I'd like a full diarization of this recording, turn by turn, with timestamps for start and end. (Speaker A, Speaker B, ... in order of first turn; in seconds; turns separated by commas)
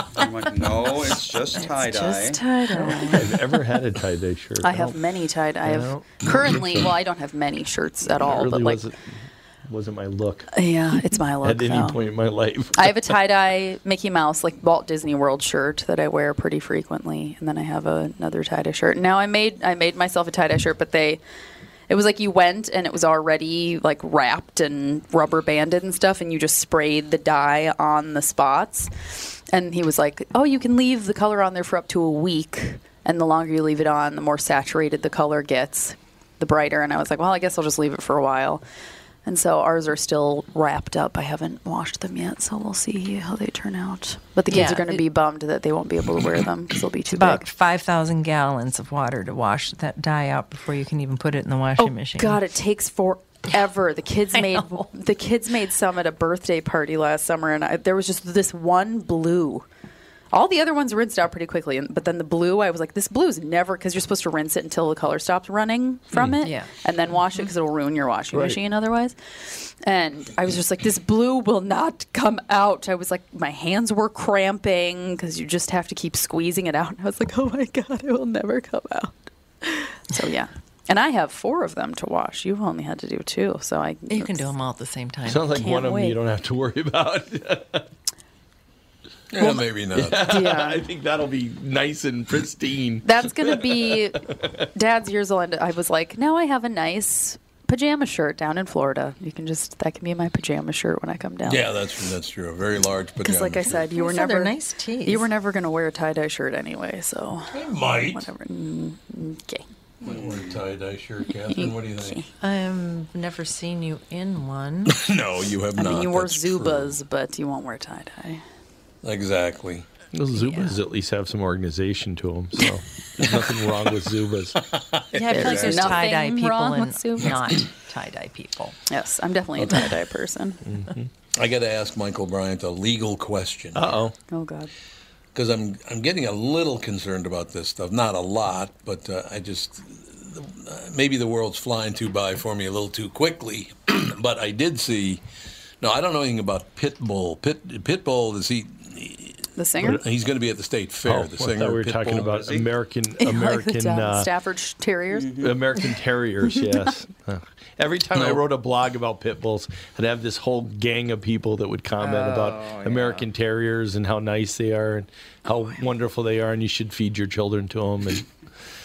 Speaker A: 0.1-2.4, Speaker B: 1.6-3.6, Speaker C: 2.8-5.0, Speaker B: 4.6-8.8, Speaker C: 5.6-6.9, Speaker C: 8.1-9.0, Speaker C: 9.7-10.5, Speaker B: 10.5-12.0, Speaker C: 11.4-13.1, Speaker B: 12.7-21.2, Speaker B: 21.9-38.6, Speaker B: 39.2-47.4, Speaker D: 44.5-45.0, Speaker D: 47.1-52.4, Speaker B: 51.8-59.6, Speaker D: 54.3-54.9, Speaker B: 60.3-84.5, Speaker C: 66.1-66.4, Speaker D: 66.4-66.7, Speaker C: 68.3-68.6, Speaker D: 84.1-85.5, Speaker C: 85.2-87.8, Speaker B: 85.5-86.2, Speaker E: 89.3-90.2, Speaker C: 89.9-94.6, Speaker B: 90.2-90.8, Speaker B: 93.0-94.2, Speaker B: 94.7-101.7, Speaker E: 101.4-103.8, Speaker B: 103.2-109.6, Speaker D: 103.9-105.2, Speaker E: 107.5-108.3, Speaker E: 110.0-112.2, Speaker A: 110.0-110.6, Speaker B: 111.5-112.3, Speaker D: 112.4-115.0, Speaker E: 114.9-117.0, Speaker B: 115.8-118.4, Speaker E: 119.0-119.9, Speaker C: 120.1-124.6, Speaker E: 124.6-126.0, Speaker D: 125.1-128.8, Speaker B: 125.3-127.4, Speaker B: 128.9-130.6, Speaker C: 130.7-131.1, Speaker E: 131.3-133.9, Speaker C: 133.7-134.1, Speaker B: 134.3-134.7, Speaker E: 135.3-145.2, Speaker E: 145.8-152.4, Speaker B: 149.6-150.0, Speaker C: 151.1-154.3, Speaker A: 152.2-152.7, Speaker B: 153.2-155.3, Speaker A: 155.1-155.6, Speaker C: 155.4-168.3, Speaker B: 156.5-156.9, Speaker E: 158.1-158.4, Speaker D: 162.0-163.2